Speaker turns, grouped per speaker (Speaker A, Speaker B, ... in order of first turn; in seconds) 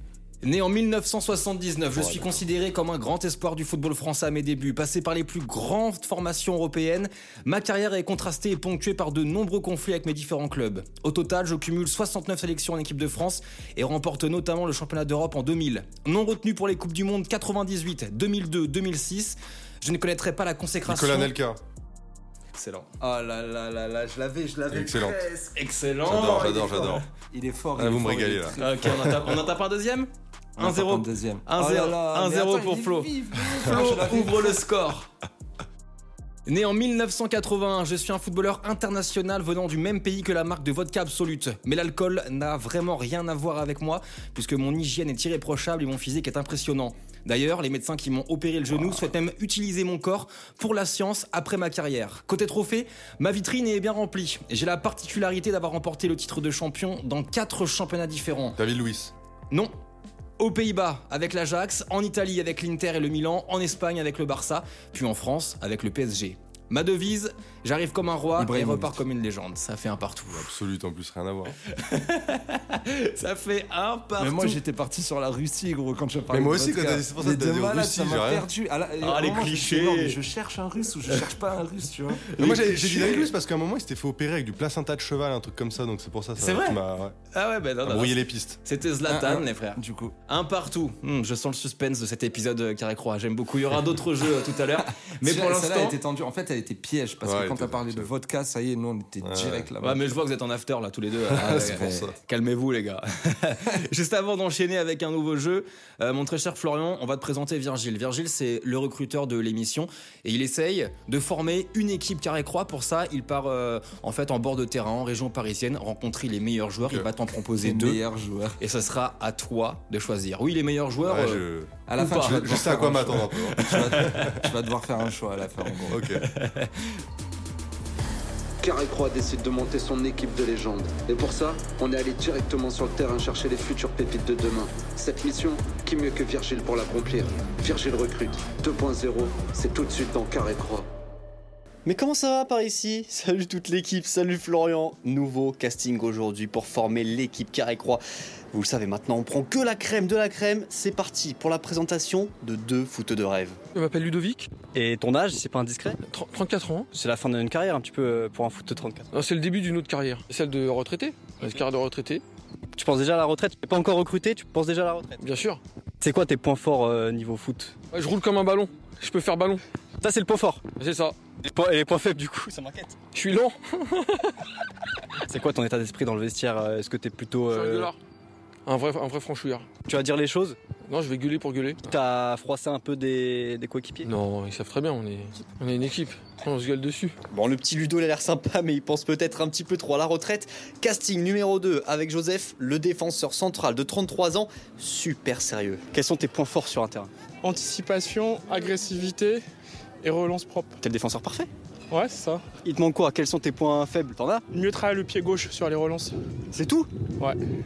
Speaker A: 0.4-21.3, 22.5-22.9, 25.5-27.0, 28.6-35.1, 36.5-58.6, 60.4-70.5, 71.7-74.6, 79.0-80.2, 82.2-83.3, 86.4-86.8, 87.3-96.0, 99.8-118.0, 118.6-121.4, 122.0-122.7, 123.6-124.4, 126.2-127.0
Speaker B: 1.9-2.4, 20.9-21.6, 24.7-25.2, 26.1-27.0, 27.8-28.9, 58.6-59.1, 70.3-71.5, 76.3-78.5, 82.4-87.2, 87.8-88.6, 97.2-98.1, 99.2-99.7, 101.4-102.2, 121.0-124.4, 125.9-126.3
Speaker C: 23.0-25.6, 26.1-28.9, 30.6-34.6, 68.4-69.0, 74.2-82.2, 89.1-90.2, 95.2-100.1, 101.4-102.1, 117.6-118.6, 121.9-126.1
Speaker D: 128.6-140.9
Speaker E: 141.8-153.6, 154.7-156.0, 156.9-159.1, 162.8-165.2, 166.0-167.8, 170.0-170.6, 171.4-173.0, 175.2-177.9, 179.8-180.6, 181.8-184.1, 187.3-197.1, 200.8-201.5, 202.6-204.4, 206.5-206.9
Speaker F: 153.7-154.5, 156.1-156.9, 159.1-162.2, 165.2-165.6, 167.9-169.6, 170.8-171.2, 173.1-174.3, 177.5-178.0, 178.7-179.7, 180.9-181.9, 184.0-187.2
Speaker G: 197.4-199.4, 200.0-200.8, 201.9-202.4, 204.5-206.2